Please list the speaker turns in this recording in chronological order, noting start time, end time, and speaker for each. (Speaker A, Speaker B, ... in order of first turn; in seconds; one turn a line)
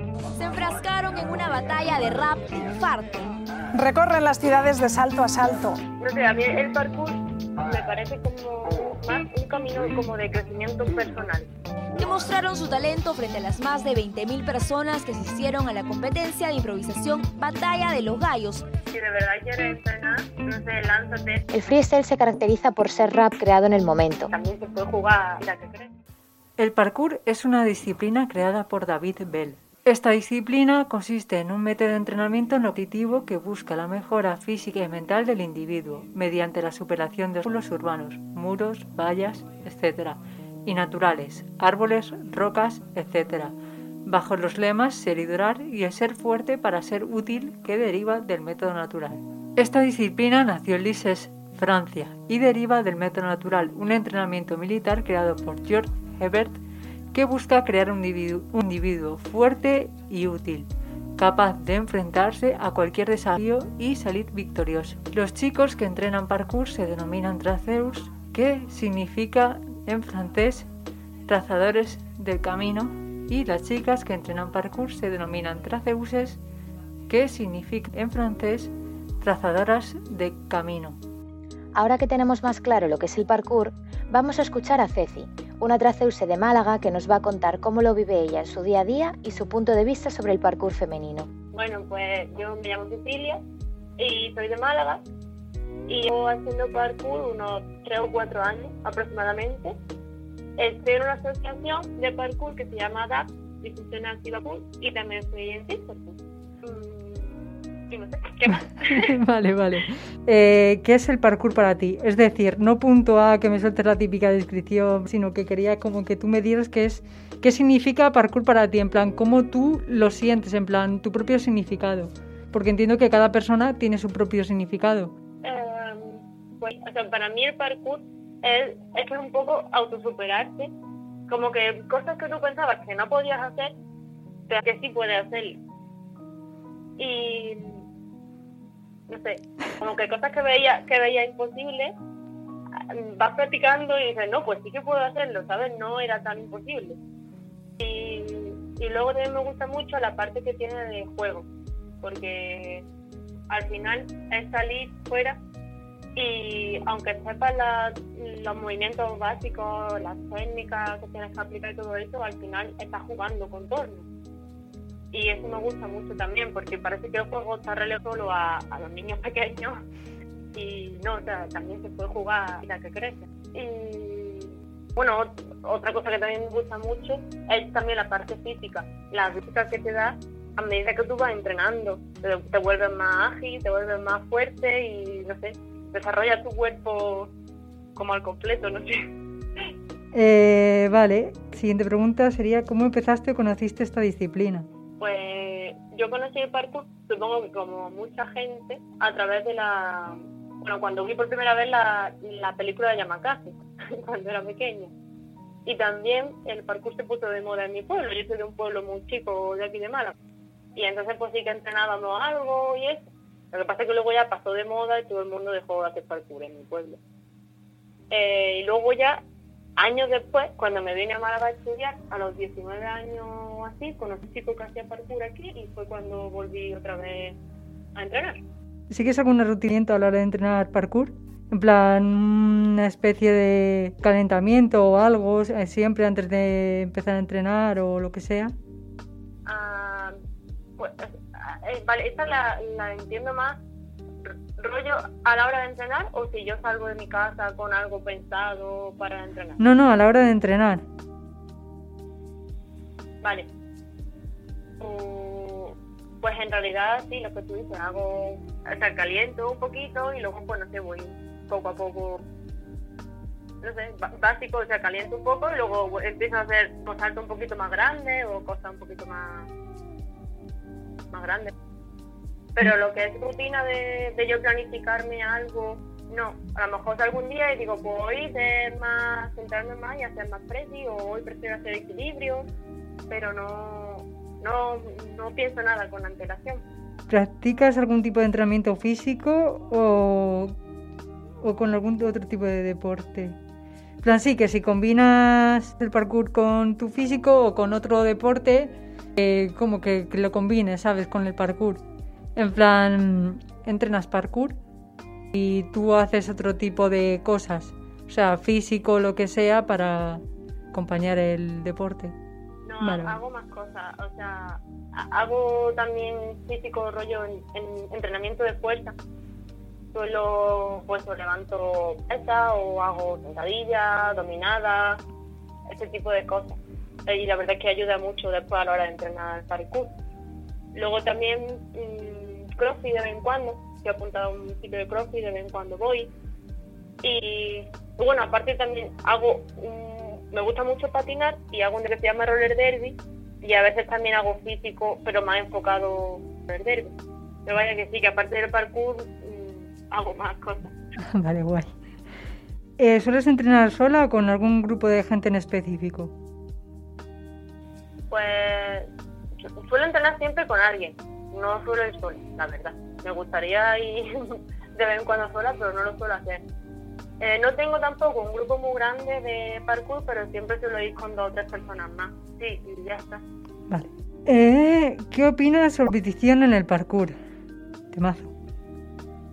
Speaker A: 0.4-3.2
Speaker B: 3.8-5.8
Speaker C: 6.0-11.5
Speaker A: 11.9-18.6
Speaker C: 18.9-21.4
Speaker D: 21.5-24.3
Speaker C: 24.3-25.9
Speaker E: 26.6-56.6
Speaker E: 57.1-70.7
Speaker E: 71.3-76.4
Speaker E: 77.1-81.0
Speaker D: 81.8-91.3
Speaker C: 91.5-93.4
Speaker C: 94.0-95.0
Speaker C: 95.9-99.7
Speaker C: 100.6-107.4
Speaker C: 107.9-109.1
Speaker E: 108.8-125.1
Speaker C: 125.4-130.7
Speaker C: 131.3-133.7
Speaker C: 134.5-135.6
Speaker C: 137.0-137.8
Speaker C: 139.1-141.9
Speaker C: 142.9-147.0
Speaker C: 147.8-151.5
Speaker C: 152.0-152.8
Speaker C: 153.5-155.4
Speaker C: 156.1-164.0
Speaker C: 165.1-169.8
Speaker C: 170.5-187.3
Speaker C: 187.9-189.0
Speaker E: 190.1-194.7
Speaker C: 195.0-204.9
Speaker C: 205.6-210.1
Speaker C: 210.7-217.0
Speaker C: 218.1-219.2
Speaker C: 219.8-227.4
Speaker C: 227.9-228.4
Speaker E: 228.9-238.5
Speaker C: 239.4-240.1
Speaker C: 240.8-243.6
Speaker C: 244.2-249.6
Speaker E: 249.6-250.8
Speaker C: 253.2-253.5
Speaker C: 254.8-262.2
Speaker C: 263.6-269.5
Speaker C: 271.1-271.5
Speaker C: 272.6-282.5
Speaker C: 283.1-286.6
Speaker E: 287.1-290.5
Speaker E: 291.4-293.4
Speaker E: 294.0-301.8
Speaker E: 302.4-304.6
Speaker E: 305.3-310.2
Speaker E: 310.7-312.1
Speaker C: 312.6-318.9
Speaker E: 312.8-313.2
Speaker C: 319.9-325.0
Speaker C: 325.7-329.9
Speaker C: 330.7-336.1
Speaker C: 337.0-346.9
Speaker C: 347.4-350.7
Speaker E: 351.1-351.7
Speaker E: 352.8-356.1
Speaker C: 358.1-358.9
Speaker C: 359.6-366.4
Speaker C: 367.2-373.2
Speaker E: 373.7-377.1
Speaker E: 377.9-378.3